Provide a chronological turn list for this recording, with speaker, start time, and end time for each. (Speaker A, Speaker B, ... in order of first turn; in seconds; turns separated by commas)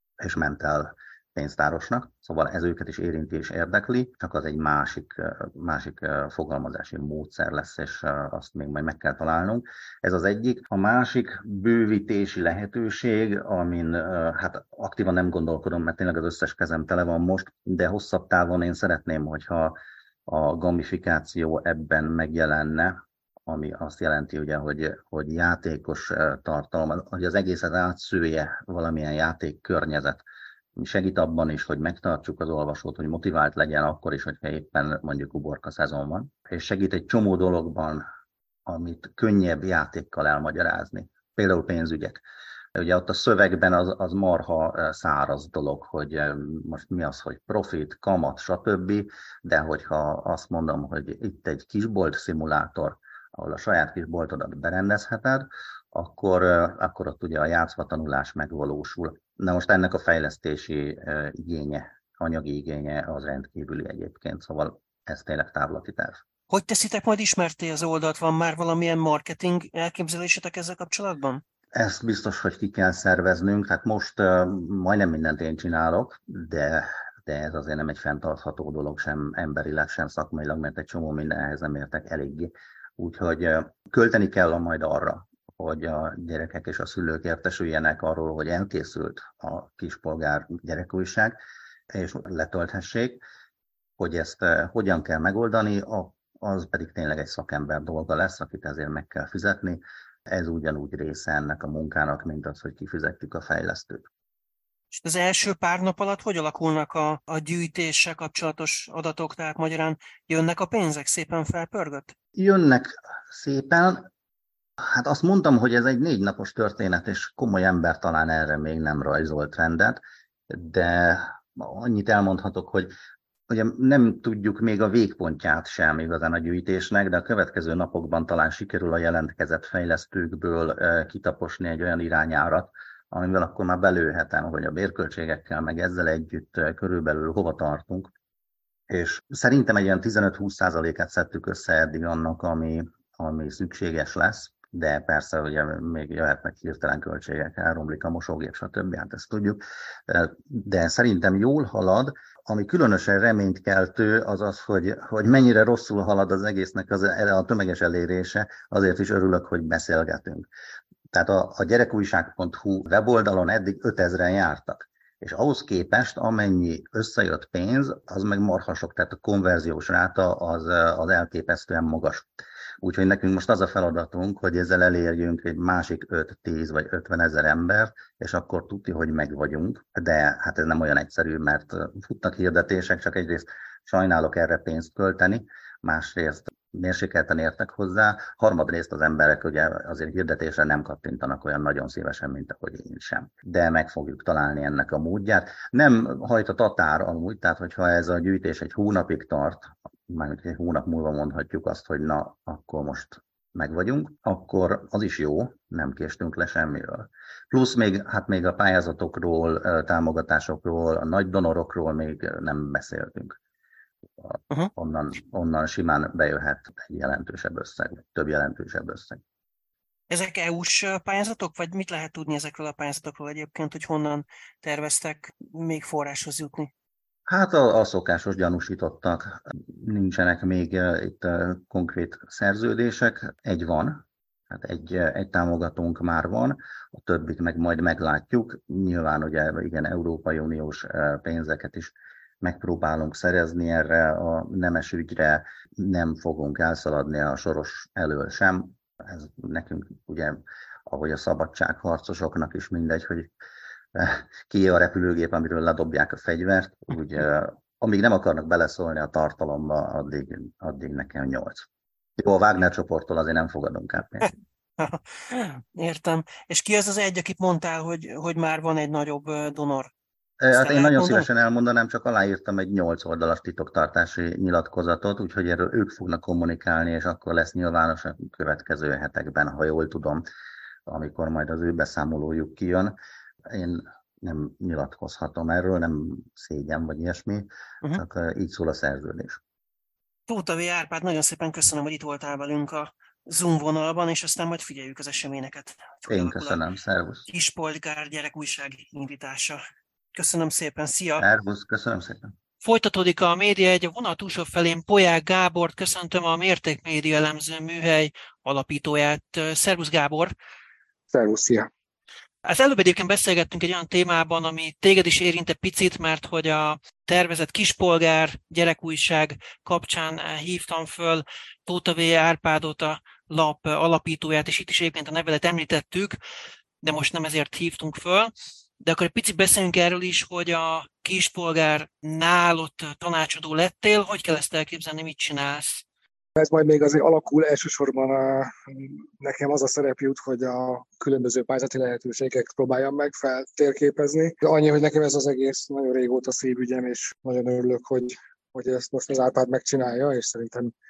Speaker A: 0.2-19.8, Speaker A: 20.3-30.2, Speaker A: 30.8-38.0, Speaker A: 38.7-42.2, Speaker A: 42.7-66.2, Speaker B: 66.5-71.4, Speaker A: 71.7-91.3, Speaker A: 91.9-93.2, Speaker A: 94.0-104.0, Speaker B: 105.0-112.1, Speaker A: 112.3-114.1, Speaker A: 114.8-122.9, Speaker A: 123.5-138.1, Speaker A: 138.9-160.5, Speaker A: 161.1-172.3, Speaker A: 172.8-213.4, Speaker A: 214.2-219.2, Speaker B: 220.1-226.7, Speaker A: 227.3-253.3, Speaker A: 253.9-264.3, Speaker B: 264.8-269.9, Speaker A: 270.4-280.2, Speaker B: 270.5-271.3, Speaker A: 280.9-282.9, Speaker A: 283.5-289.4, Speaker B: 290.3-296.6, Speaker A: 296.1-297.3, Speaker B: 297.3-299.6, Speaker B: 300.1-301.2, Speaker A: 301.2-302.3, Speaker B: 302.6-310.3, Speaker C: 311.1-311.7, Speaker B: 312.4-326.2, Speaker B: 326.8-335.8, Speaker C: 336.4-350.7